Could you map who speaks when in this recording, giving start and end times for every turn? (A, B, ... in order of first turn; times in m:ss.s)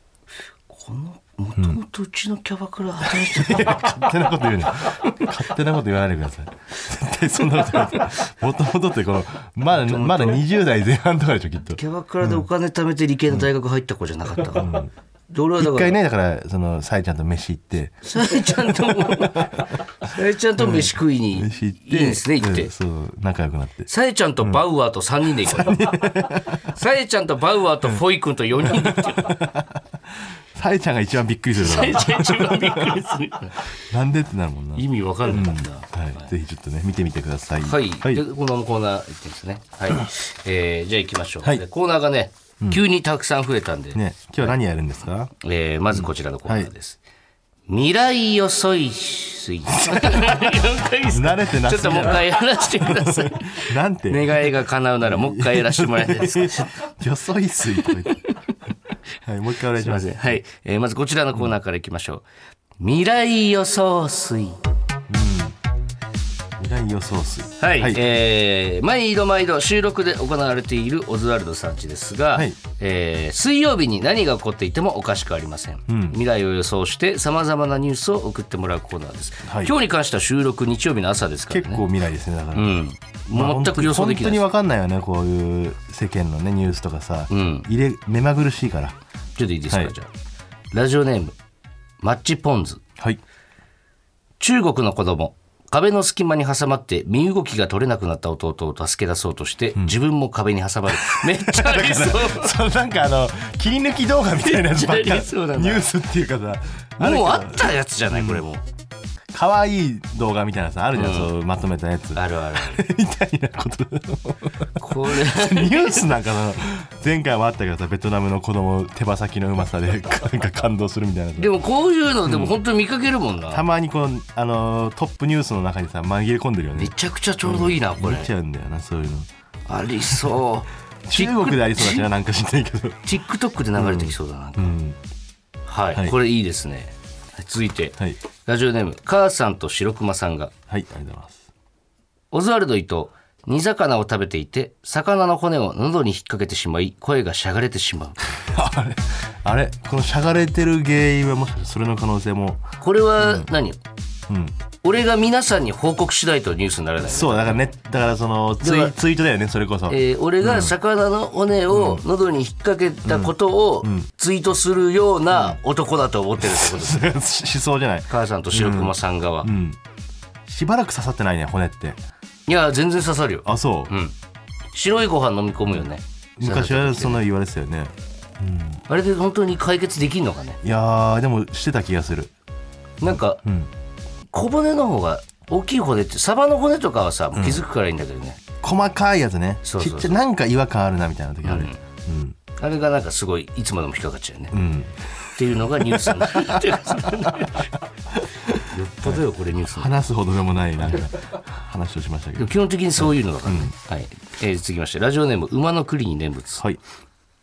0:00.7-0:04.3 A
0:03.0-0:12.4 B
0:05.0-0:05.3 A
0:09.8-0:10.4 A
0:11.8-0:16.0 A
0:14.5-0:14.9 B
0:15.6-0:18.0 B
0:18.0-0:22.7 A
0:19.1-0:19.6 B
0:20.6-0:23.9 B
0:23.9-0:29.4 A
0:25.4-0:26.6 B
0:28.7-0:29.8 B
0:30.5-0:33.1 B
0:31.6-0:33.7 A
0:33.8-0:38.2 B
0:34.8-0:36.3 A
0:37.6-0:44.6 A
0:44.0-0:45.3 B
0:45.4-0:47.0 A
0:45.9-0:46.7 B
0:47.7-0:56.8 A
0:49.8-0:50.3 B
0:51.1-0:54.5 B
0:55.0-0:58.2 B
0:57.8-0:58.4 A
0:59.2-1:00.2 B
0:59.8-1:02.3 A
1:02.8-1:04.6 A
1:05.1-1:05.6 B
1:06.6-1:08.0 B
1:07.6-1:21.8 A
1:15.9-1:16.2 B
1:19.5-1:19.7 B
1:21.5-1:22.7 B
1:22.6-1:24.4 A
1:23.3-1:29.0 B
1:27.3-1:27.7 A
1:29.4-1:30.1 A
1:30.7-1:31.4 A
1:32.0-1:32.8 A
1:34.4-1:42.5 A
1:41.0-1:48.4 B
1:44.4-1:45.9 A
1:47.0-1:48.6 A
1:49.3-2:01.5 B
1:51.0-1:51.3 A
1:52.2-1:52.8 A
1:54.8-1:56.1 A
2:01.4-2:03.6 A
2:02.3-2:02.6 B
2:03.5-2:09.3 B
2:06.8-2:08.3 A
2:09.7-2:12.1 A
2:11.1-2:13.0 B
2:13.0-2:14.8 A
2:13.8-2:15.0 B
2:15.7-2:20.5 A
2:20.7-2:21.4 B
2:22.3-2:28.3 A
2:28.5-2:32.6 B
2:32.8-2:33.8 A
2:33.2-2:33.5 B
2:34.3-2:34.6 B
2:34.8-2:37.6 A
2:37.1-2:40.8 B
2:38.6-2:38.9 A
2:39.9-2:47.2 A
2:41.7-2:42.0 B
2:43.0-2:44.1 B
2:46.4-2:49.8 B
2:48.1-2:49.5 A
2:50.5-2:52.0 B
2:52.5-2:54.2 A
2:53.4-2:53.9 B
2:54.7-2:57.2 A
2:56.4-2:58.8 B
2:58.9-3:00.6 A
3:00.6-3:02.3 B
3:03.0-3:03.4 A
3:03.1-3:03.7 B
3:04.3-3:08.4 A
3:07.4-3:07.6 B
3:08.6-3:12.4 B
3:09.6-3:10.2 A
3:11.4-3:11.8 A
3:12.6-3:14.6 A
3:14.5-3:14.9 B
3:15.3-3:17.7 A
3:15.9-3:17.3 B
3:18.1-3:19.2 B
3:18.6-3:19.9 A
3:19.7-3:23.7 B
3:22.4-3:26.6 A